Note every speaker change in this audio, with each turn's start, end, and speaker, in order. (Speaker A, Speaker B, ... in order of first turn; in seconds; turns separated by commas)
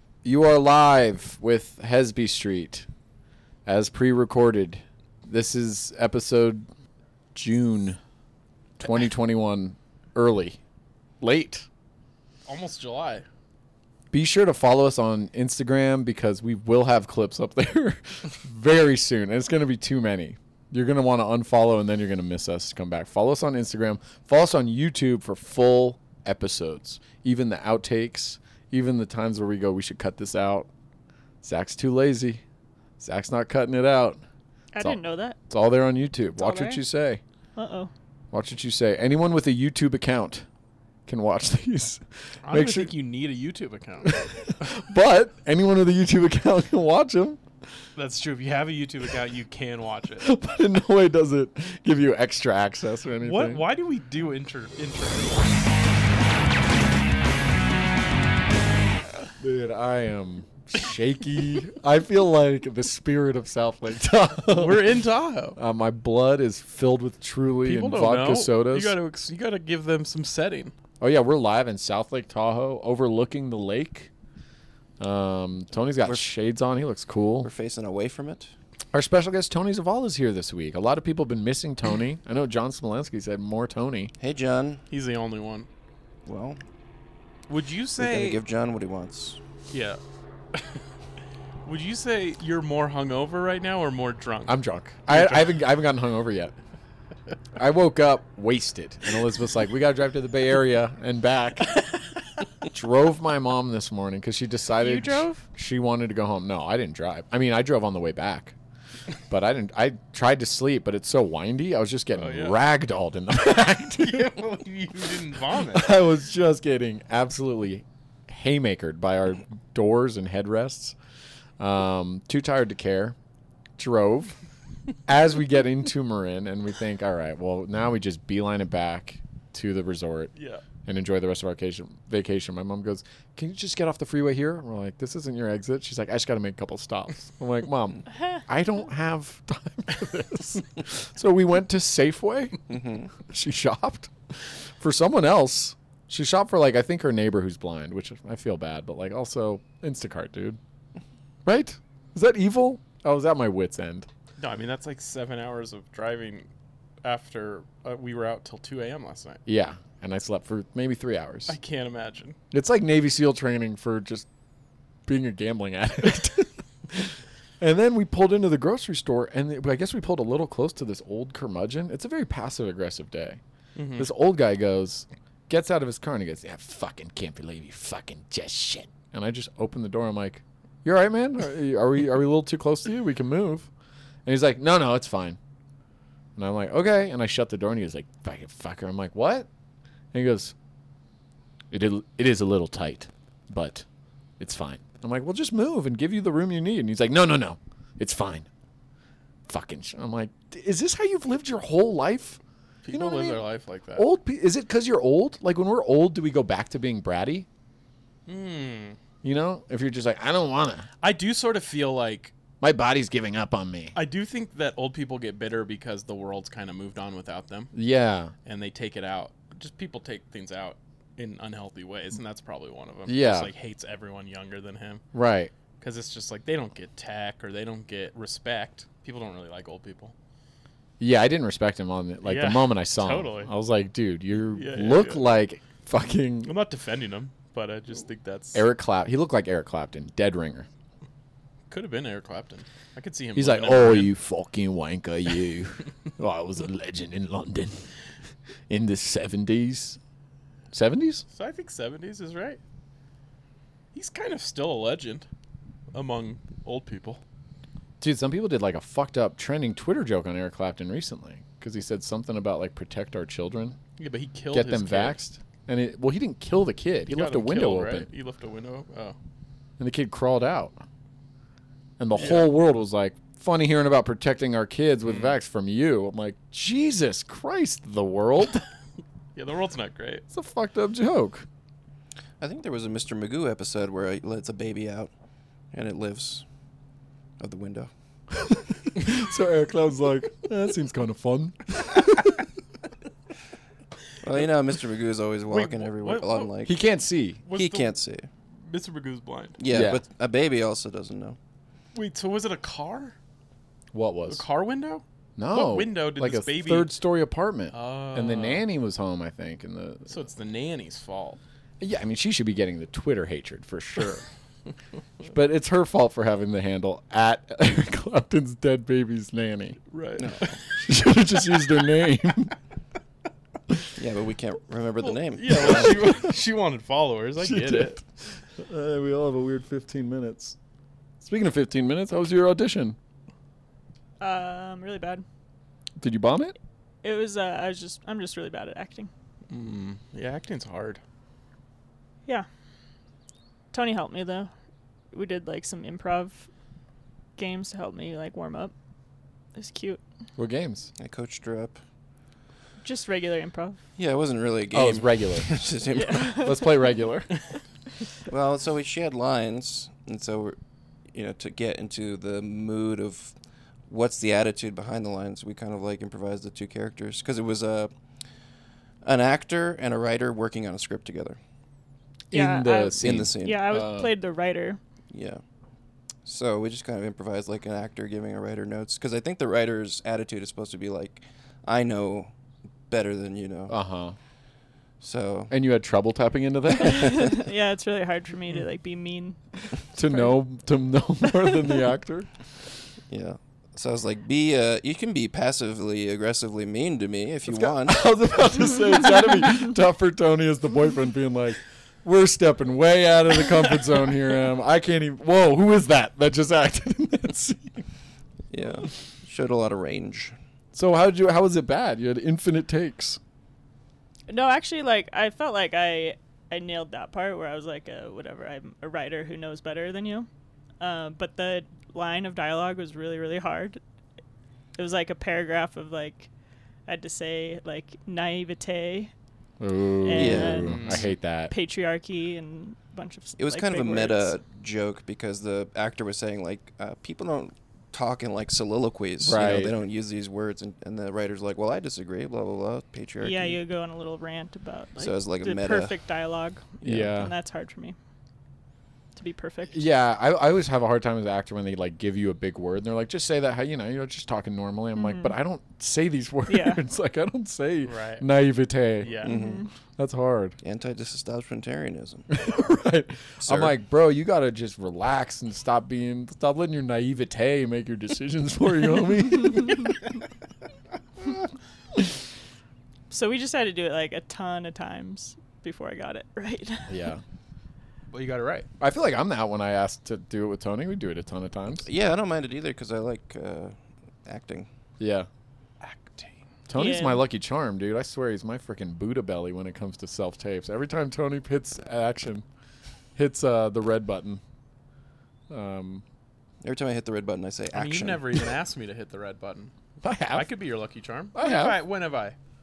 Speaker A: 0.2-2.9, Speaker A: 3.6-6.7, Speaker A: 7.3-8.0, Speaker A: 8.8-10.6, Speaker A: 11.2-11.7, Speaker B: 12.5-13.2, Speaker A: 14.1-30.7, Speaker A: 31.4-32.4, Speaker A: 33.0-34.2, Speaker C: 34.7-35.4, Speaker A: 34.8-37.2, Speaker C: 36.4-36.8, Speaker C: 37.5-37.9, Speaker A: 38.3-40.5, Speaker A: 41.1-42.9, Speaker B: 42.5-44.3, Speaker A: 44.0-47.4, Speaker B: 48.0-50.3, Speaker A: 50.2-53.6, Speaker B: 53.2-55.6, Speaker A: 59.4-64.9, Speaker B: 64.5-65.6, Speaker A: 65.5-69.0, Speaker B: 67.6-70.7, Speaker A: 71.0-74.1, Speaker A: 75.0-77.5, Speaker D: 77.4-78.5, Speaker A: 78.9-84.1, Speaker D: 84.2-84.8, Speaker B: 84.9-85.7, Speaker D: 86.2-86.6, Speaker B: 87.5-88.4, Speaker D: 88.0-89.4, Speaker B: 89.7-90.0, Speaker B: 90.5-90.8, Speaker B: 91.6-95.6, Speaker A: 94.5-96.5, Speaker A: 97.6-101.8, Speaker A: 102.7-108.5, Speaker C: 104.8-105.4, Speaker A: 109.3-114.3, Speaker B: 112.1-112.6, Speaker B: 114.0-115.9, Speaker A: 115.6-121.0, Speaker A: 121.6-123.2, Speaker A: 123.8-124.4, Speaker A: 125.0-130.3, Speaker B: 130.3-130.6, Speaker A: 130.8-142.6, Speaker D: 142.7-143.1, Speaker A: 143.2-150.6, Speaker A: 151.4-154.1, Speaker B: 154.4-156.5, Speaker B: 157.0-159.4, Speaker A: 159.4-161.6, Speaker B: 161.5-162.4, Speaker A: 162.5-164.2, Speaker A: 165.1-173.4, Speaker B: 173.8-174.1, Speaker A: 173.9-183.7, Speaker A: 184.2-185.4, Speaker A: 186.4-189.5, Speaker A: 190.1-190.5, Speaker A: 191.7-193.8, Speaker A: 194.4-198.5, Speaker A: 199.5-202.4, Speaker B: 202.8-204.0, Speaker A: 202.9-207.5, Speaker B: 208.3-209.0, Speaker A: 209.2-210.9, Speaker B: 211.0-212.3, Speaker A: 212.6-213.9, Speaker B: 213.9-217.7, Speaker A: 217.7-218.3, Speaker B: 218.4-225.0, Speaker A: 223.1-223.5, Speaker A: 225.1-225.5, Speaker B: 225.8-230.1, Speaker A: 231.0-236.5, Speaker B: 232.2-233.5, Speaker B: 234.5-235.3, Speaker B: 236.4-238.6, Speaker A: 238.5-240.7, Speaker B: 241.7-244.1, Speaker A: 243.3-247.8, Speaker A: 248.7-250.0, Speaker A: 250.7-251.2, Speaker B: 251.3-252.6, Speaker B: 253.9-255.3, Speaker B: 255.9-257.2, Speaker A: 258.0-263.8, Speaker B: 264.0-265.2, Speaker A: 264.5-268.1, Speaker B: 267.1-269.2, Speaker A: 269.8-270.8, Speaker A: 272.0-278.6, Speaker B: 272.1-272.5, Speaker B: 275.1-275.3, Speaker B: 279.4-280.2, Speaker A: 280.3-281.5, Speaker D: 282.4-285.1, Speaker D: 285.7-286.4, Speaker D: 287.4-287.9, Speaker A: 288.4-292.4, Speaker D: 294.2-296.8, Speaker B: 295.5-296.5, Speaker A: 296.7-297.4, Speaker B: 297.5-297.9, Speaker D: 297.5-298.3, Speaker B: 298.6-299.6, Speaker D: 299.6-301.4, Speaker A: 299.7-300.0, Speaker B: 301.9-303.1, Speaker A: 303.9-304.4, Speaker B: 304.3-306.9, Speaker A: 305.4-310.2, Speaker B: 307.7-308.6, Speaker B: 310.1-311.4, Speaker A: 311.8-314.2, Speaker A: 315.2-319.8, Speaker B: 319.9-320.6, Speaker D: 320.2-320.5, Speaker A: 320.8-322.6, Speaker D: 324.0-326.1, Speaker B: 325.1-328.0, Speaker A: 325.6-326.2, Speaker A: 327.4-330.6, Speaker A: 331.2-333.0, Speaker C: 334.2-335.2, Speaker A: 336.0-336.6, Speaker C: 337.0-339.1, Speaker B: 339.5-341.0, Speaker C: 343.7-344.5, Speaker C: 345.1-346.5, Speaker C: 347.4-348.7, Speaker C: 349.6-350.0, Speaker A: 350.4-350.9, Speaker D: 351.0-351.8, Speaker C: 352.8-353.8, Speaker D: 354.0-356.5, Speaker A: 354.7-355.6, Speaker C: 355.9-356.6, Speaker A: 356.4-357.3, Speaker D: 358.3-360.6, Speaker D: 361.1-363.4, Speaker D: 363.9-367.9, Speaker D: 369.0-371.4, Speaker A: 372.3-374.1, Speaker C: 372.3-374.8, Speaker D: 373.0-373.7, Speaker D: 375.1-375.4, Speaker D: 376.2-382.3, Speaker D: 382.9-383.7, Speaker A: 383.7-384.2, Speaker D: 385.0-385.5, Speaker A: 385.5-387.5, Speaker C: 386.8-389.4, Speaker A: 389.9-392.3, Speaker C: 390.0-390.3, Speaker D: 393.1-398.2, Speaker A: 397.5-407.9, Speaker D: 408.5-410.4, Speaker A: 410.7-413.2, Speaker C: 414.3-420.3, Speaker C: 420.8-423.8, Speaker C: 424.8-426.3, Speaker C: 426.9-429.1, Speaker A: 429.6-431.5, Speaker C: 430.0-434.3, Speaker D: 430.1-430.8, Speaker B: 430.6-431.1, Speaker D: 433.4-443.6, Speaker A: 439.2-439.8, Speaker C: 443.2-448.0, Speaker D: 445.0-445.9, Speaker A: 446.8-447.3, Speaker D: 446.8-447.1, Speaker C: 449.2-449.9, Speaker A: 449.7-459.2, Speaker C: 455.0-455.3, Speaker C: 456.5-456.8, Speaker B: 457.9-458.2, Speaker B: 459.0-459.5, Speaker C: 459.2-459.7, Speaker D: 459.2-459.6, Speaker A: 460.0-460.6, Speaker D: 460.6-462.3, Speaker A: 462.3-470.0, Speaker D: 463.4-463.8, Speaker C: 473.1-477.1, Speaker A: 476.9-477.2, Speaker B: 478.1-478.7, Speaker A: 478.8-481.9, Speaker D: 481.8-484.7, Speaker A: 485.0-485.3, Speaker B: 485.8-486.4, Speaker A: 486.7-492.4, Speaker C: 486.8-487.2, Speaker A: 493.2-494.4, Speaker A: 495.5-496.0, Speaker D: 496.6-498.5, Speaker B: 497.7-499.7, Speaker A: 500.0-500.5, Speaker B: 500.3-502.4, Speaker A: 501.3-501.8